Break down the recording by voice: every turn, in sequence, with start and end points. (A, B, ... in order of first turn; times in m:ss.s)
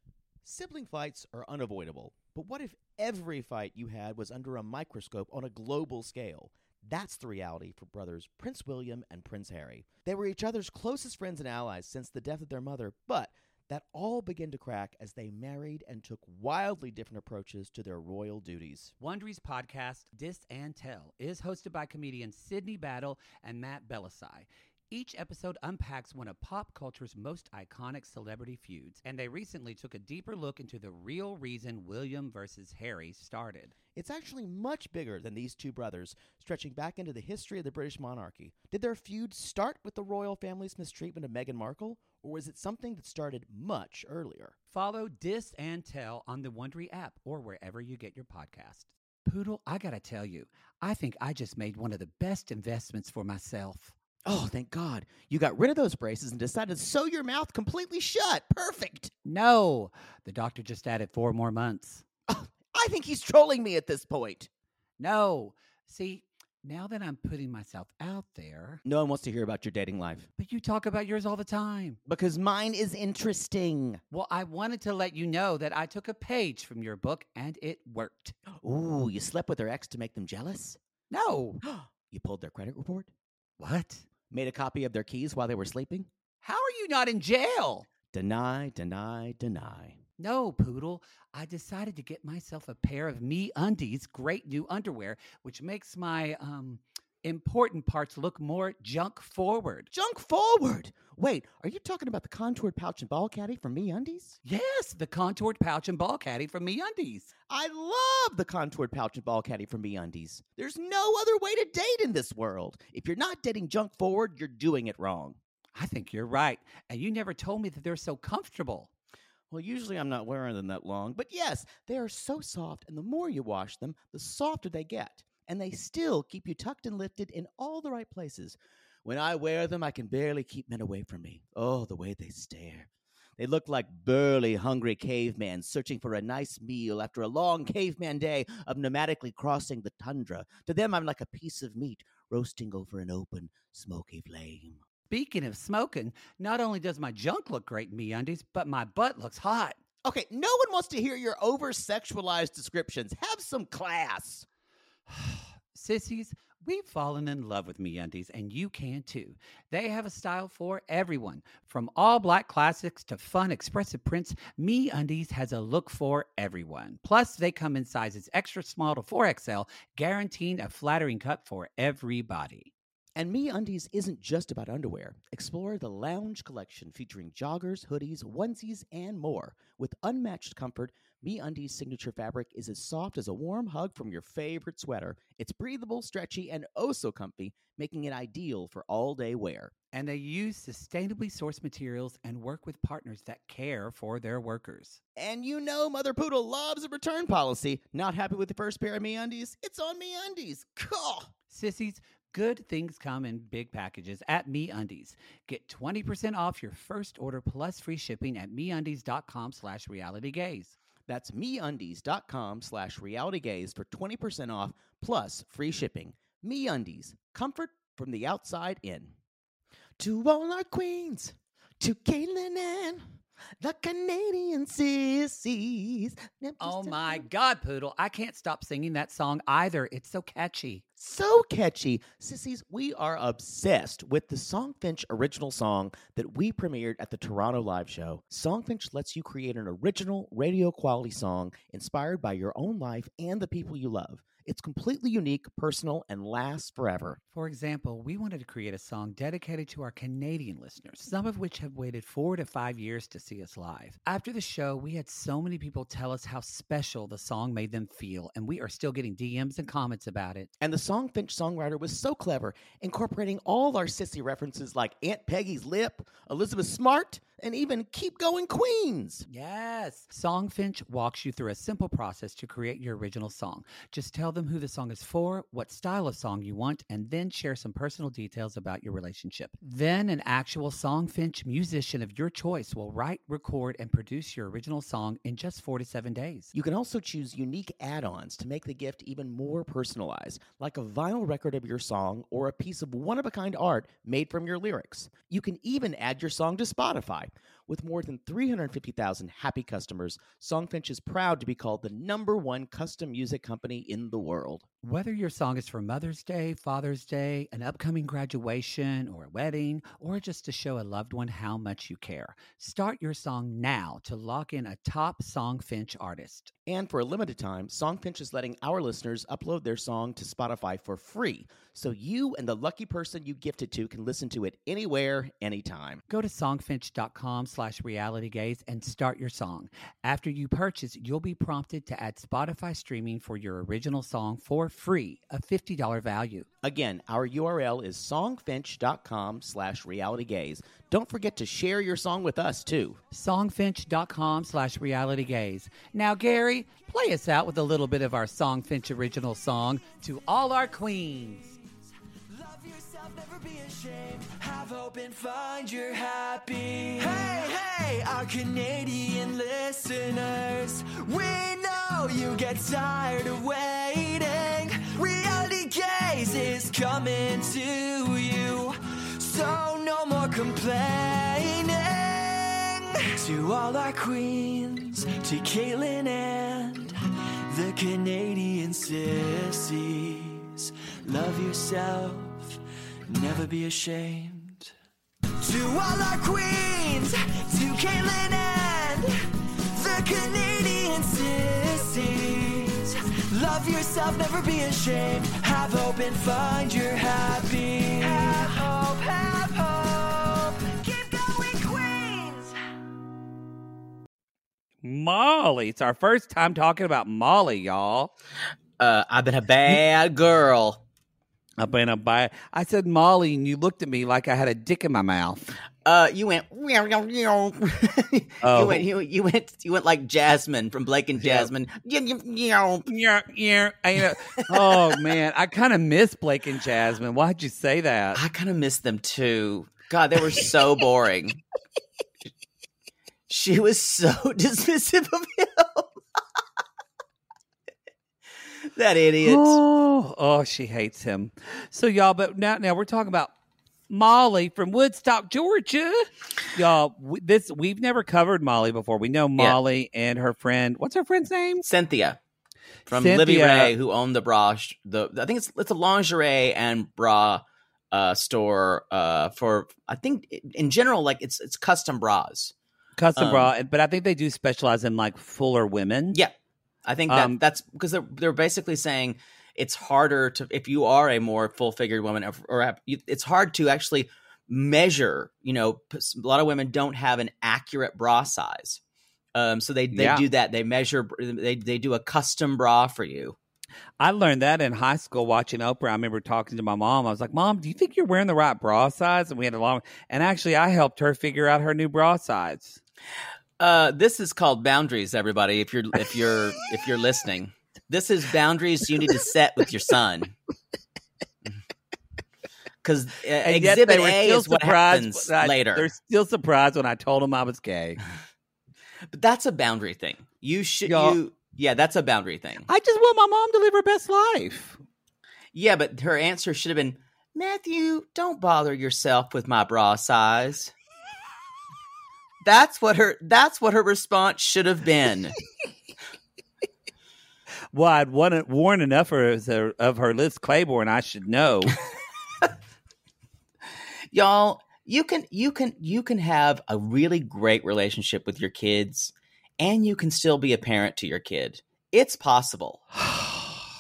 0:00.4-0:18.9 A
0:19.0-0:33.8 B
0:33.9-0:44.6 A
0:44.7-0:53.9 B
0:54.3-0:59.1 A
0:59.3-1:02.0 B
1:02.3-1:04.5 A
1:05.0-1:08.8 B
1:08.9-1:10.3 A
1:10.4-1:12.0 B
1:12.1-1:14.0 A
1:14.1-1:18.4 B
1:18.6-1:20.8 A
1:21.1-1:21.6 B
1:21.6-1:23.1 A
1:23.6-1:24.0 B
1:24.3-1:26.1 A
1:26.4-1:27.9 B
1:28.1-1:30.0 A
1:30.2-1:39.9 B
1:39.9-1:44.4 A
1:44.4-1:47.3 B
1:47.5-1:55.4 A
1:55.8-1:58.9 B
1:59.5-2:24.8 A
2:25.1-2:29.8 B
2:30.0-2:34.5 A
2:35.1-2:52.7 B
2:53.2-3:09.7 A
3:09.9-3:15.0 B
3:15.2-3:21.3 A
3:21.5-3:30.8 B
3:31.1-3:39.1 A
3:40.0-3:43.0 A
3:43.6-3:47.2 A
3:46.6-3:50.8 B
3:51.0-4:07.2 A
4:07.3-4:20.5 B
4:20.6-4:29.3 A
4:29.3-4:46.5 B
4:46.5-5:04.6 A
5:04.8-5:16.5 B
5:16.7-5:26.0 A
5:26.1-5:36.5 B
5:36.6-5:43.0 A
5:43.1-5:51.6 B
5:52.3-6:17.0 C
6:17.5-6:22.6 C
6:23.1-6:24.7 C
6:25.4-6:29.1 C
6:29.7-6:42.6 C
6:44.8-6:48.1 B
6:48.8-6:50.8 D
6:51.6-6:55.5 B
6:55.8-7:02.9 D
6:58.4-6:58.9 B
7:01.2-7:01.5 B
7:02.9-7:08.2 B
7:04.5-7:04.8 D
7:08.2-7:11.4 D
7:13.3-7:15.9 D
7:18.7-7:19.6 D
7:19.2-7:23.3 B
7:23.9-7:31.7 B
7:31.6-7:32.2 D
7:32.9-7:42.5 D
7:32.9-7:33.7 B
7:43.0-7:46.2 B
7:43.2-7:43.5 D
7:46.9-7:58.8 D
7:47.1-7:47.4 B
7:59.4-8:03.4 D
7:59.9-8:00.2 B
8:04.0-8:12.8 B
8:13.6-8:20.3 D
8:22.8-8:25.9 D
8:23.4-8:28.0 B
8:29.1-8:32.7 D
8:30.9-8:31.2 B
8:32.7-8:34.8 B
8:35.5-8:40.7 D
8:42.4-8:45.4 D
8:47.7-8:51.8 B
8:54.1-9:02.8 D
9:03.0-9:03.6 B